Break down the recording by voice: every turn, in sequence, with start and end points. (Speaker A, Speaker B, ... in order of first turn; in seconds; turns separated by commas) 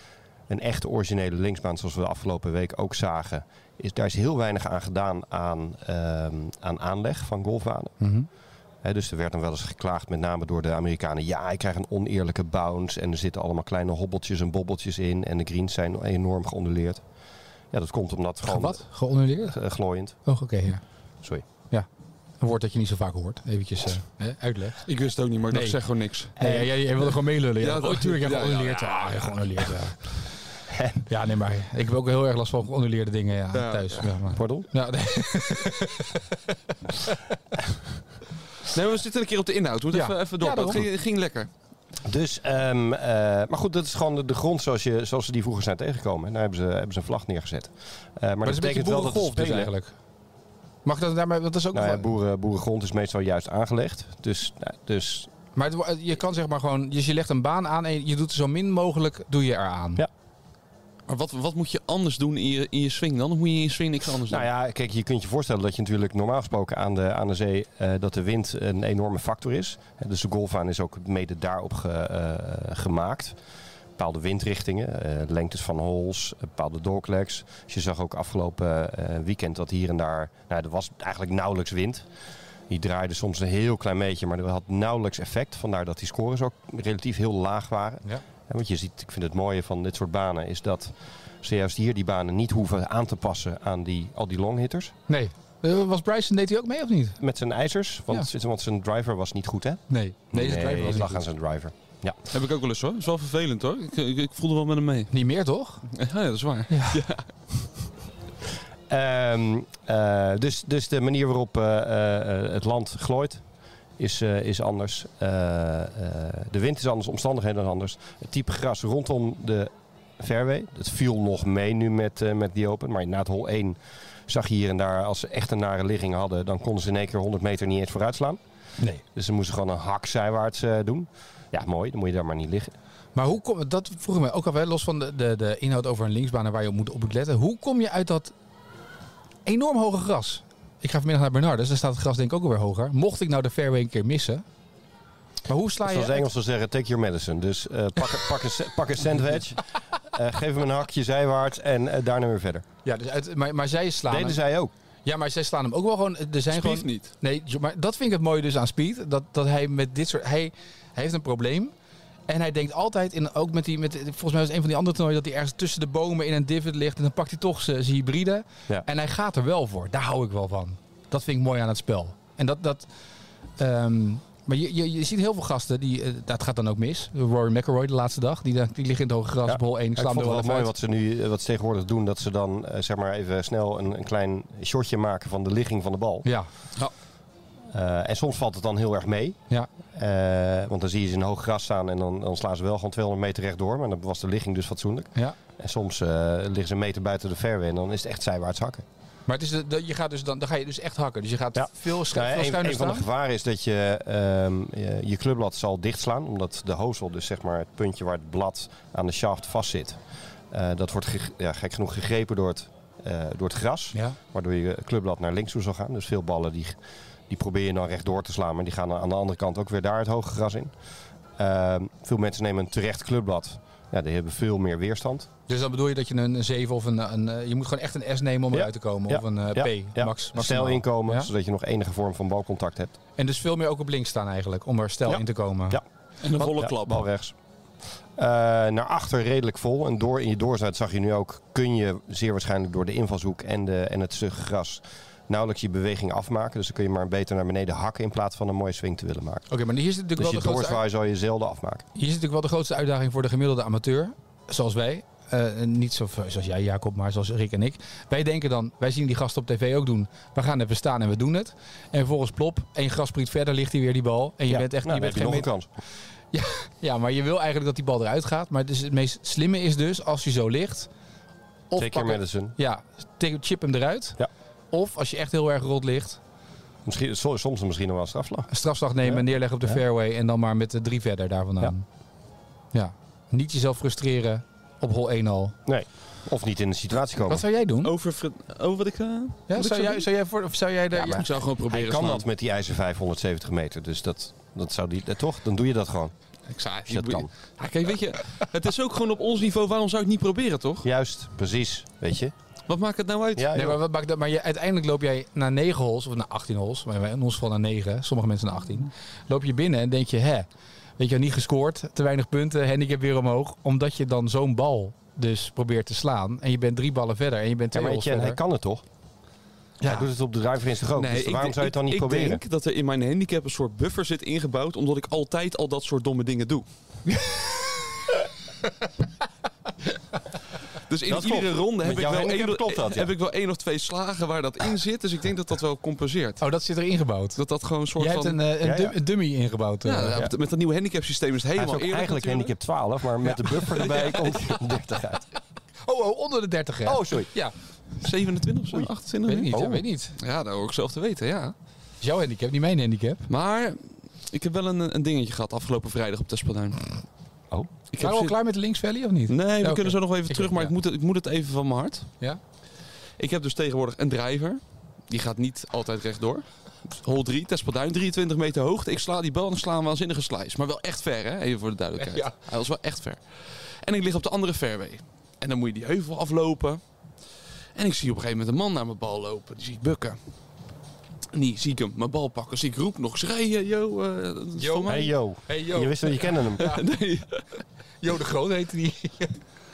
Speaker A: 0.5-8.0, Speaker B: 8.0-8.3, Speaker A: 8.8-17.0, Speaker A: 17.7-20.2, Speaker B: 18.4-19.6, Speaker B: 20.2-20.8, Speaker B: 22.4-24.9, Speaker C: 24.9-26.3, Speaker B: 25.5-25.8, Speaker B: 26.4-30.2, Speaker A: 26.4-26.7, Speaker C: 27.6-29.7, Speaker A: 30.7-31.0, Speaker B: 31.1-36.4, Speaker C: 33.5-34.1, Speaker A: 34.3-34.7, Speaker B: 36.9-37.2, Speaker C: 38.6-41.5, Speaker B: 39.9-40.8, Speaker A: 42.0-49.7, Speaker B: 48.4-49.9, Speaker B: 50.9-52.1, Speaker A: 51.7-55.3, Speaker B: 55.5-60.0, Speaker C: 61.1-64.5, Speaker A: 64.3-73.4, Speaker A: 74.0-82.1, Speaker A: 82.7-94.9, Speaker B: 95.1-97.2, Speaker A: 97.2-102.2, Speaker B: 99.9-101.2, Speaker C: 102.3-105.1, Speaker B: 105.1-105.8, Speaker C: 105.9-107.3, Speaker B: 106.7-107.0, Speaker A: 108.9-113.4, Speaker A: 114.0-128.4, Speaker A: 129.1-132.7, Speaker B: 133.2-138.3, Speaker B: 139.4-144.4, Speaker B: 145.5-146.3, Speaker A: 145.8-152.7, Speaker B: 152.8-154.4, Speaker A: 154.1-154.7, Speaker B: 155.1-161.7, Speaker C: 156.5-157.1, Speaker B: 162.3-172.9, Speaker B: 173.6-180.7, Speaker A: 179.5-186.3, Speaker A: 187.7-189.4, Speaker A: 189.9-198.8, Speaker B: 199.3-203.0, Speaker A: 201.6-210.0, Speaker A: 210.5-216.8, Speaker A: 217.3-220.7, Speaker A: 221.4-225.3, Speaker B: 225.5-231.3, Speaker A: 228.5-232.9, Speaker B: 233.2-235.8, Speaker A: 235.1-235.8, Speaker C: 236.2-237.1, Speaker A: 236.4-237.3, Speaker A: 238.2-249.4, Speaker B: 249.5-250.8, Speaker A: 250.2-251.8, Speaker B: 251.9-265.5, Speaker A: 264.5-265.7, Speaker B: 266.3-270.9, Speaker B: 271.7-274.2, Speaker A: 271.8-272.6, Speaker B: 274.7-276.2, Speaker A: 276.9-278.5, Speaker B: 278.5-281.9, Speaker A: 279.1-279.8, Speaker B: 282.7-285.6, Speaker A: 285.7-287.4, Speaker B: 287.3-287.9, Speaker C: 287.8-290.1, Speaker B: 289.5-291.3, Speaker C: 290.9-292.2, Speaker A: 291.2-296.1, Speaker C: 296.5-300.9, Speaker A: 296.9-297.3, Speaker A: 300.8-302.3, Speaker C: 302.7-303.5, Speaker A: 303.4-303.8, Speaker B: 303.5-318.4, Speaker A: 317.7-318.8, Speaker B: 319.8-320.1, Speaker A: 319.8-322.4, Speaker C: 320.9-326.6, Speaker C: 330.9-336.4, Speaker A: 331.1-333.1, Speaker B: 336.4-337.4, Speaker C: 337.4-338.4, Speaker B: 338.0-340.2, Speaker A: 338.6-339.0, Speaker C: 339.9-342.5, Speaker A: 341.6-345.3, Speaker B: 343.2-343.8, Speaker B: 345.9-347.5, Speaker A: 346.9-347.3, Speaker C: 348.0-351.5, Speaker B: 349.3-350.1, Speaker A: 349.5-349.8, Speaker B: 352.0-353.3, Speaker C: 353.3-357.0, Speaker C: 357.9-358.4, Speaker B: 358.0-360.7, Speaker C: 359.3-362.1, Speaker C: 363.2-376.8, Speaker B: 372.0-372.4, Speaker C: 377.8-380.2, Speaker C: 381.3-385.1, Speaker B: 384.6-386.9, Speaker A: 384.9-386.6, Speaker C: 386.6-387.6, Speaker B: 388.0-389.4